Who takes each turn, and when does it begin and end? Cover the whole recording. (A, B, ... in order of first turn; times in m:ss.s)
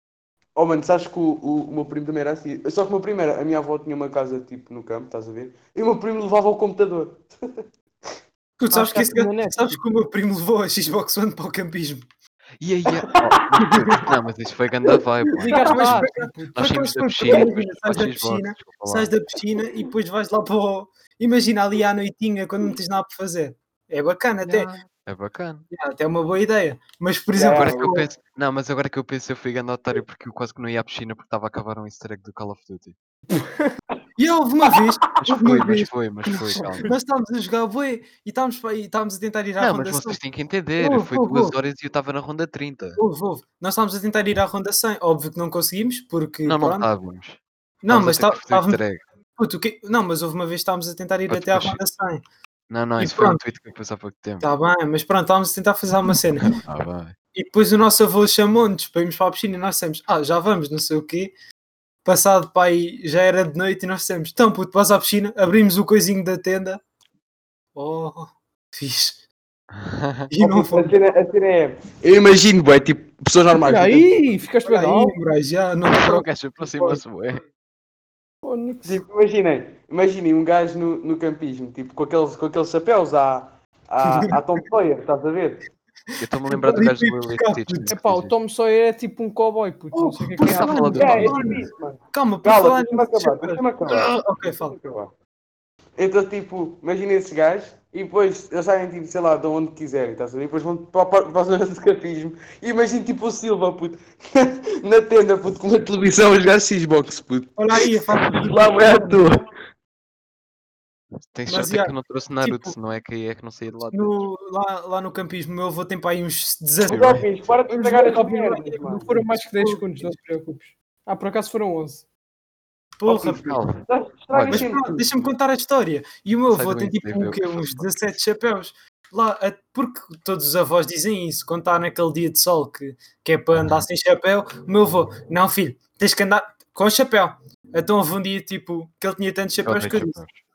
0:00.6-0:08.1 A
0:08.6-0:12.0 B
0:08.7-0:09.8 C
0:12.6-0:19.1 D
0:13.6-0:14.1 B
0:15.4-0:16.6 C
0:15.7-0:24.7 B
0:24.4-0:25.7 D
0:25.7-0:28.1 B
0:27.4-0:27.9 A
0:27.5-0:33.0 D
0:33.3-0:33.7 C
0:34.2-0:35.9 B
0:35.2-0:36.9 D
0:36.5-0:40.2 B
0:39.6-0:43.0 D
0:40.8-0:41.6 B
0:43.0-0:46.9 B
0:46.4-0:49.0 D
0:47.8-0:48.8 B
0:49.4-0:52.2 B
0:51.3-0:51.8 D
0:52.7-0:54.5 D
0:53.0-0:53.4 B
0:54.4-0:56.6 B
0:56.5-0:57.2 D
0:57.3-1:01.3 B
1:02.0-1:06.8 B
1:07.8-1:09.2 B
1:09.8-1:10.3 D
1:10.3-1:11.0 B
1:10.4-1:14.2 A
1:13.5-1:15.2 C
1:14.6-1:17.0 B
1:15.8-1:17.4 D
1:18.4-1:19.0 C
1:18.8-1:25.6 A
1:24.1-1:24.4 B
1:26.2-1:28.3 D
1:26.5-1:27.9 B
1:27.9-1:31.4 C
1:29.9-1:34.8 B
1:30.4-1:31.4 D
1:31.0-1:35.1 A
1:36.0-1:49.4 A
1:47.6-1:49.2 B
1:51.3-1:54.3 D
1:51.5-1:52.8 B
1:53.9-1:57.2 B
1:56.8-1:59.2 A
1:57.7-2:02.1 C
1:59.1-2:00.1 B
2:03.0-2:03.6 B
2:03.0-2:05.3 A
2:03.4-2:04.7 D
2:04.5-2:20.2 B
2:06.5-2:07.9 D
2:19.6-2:20.4 D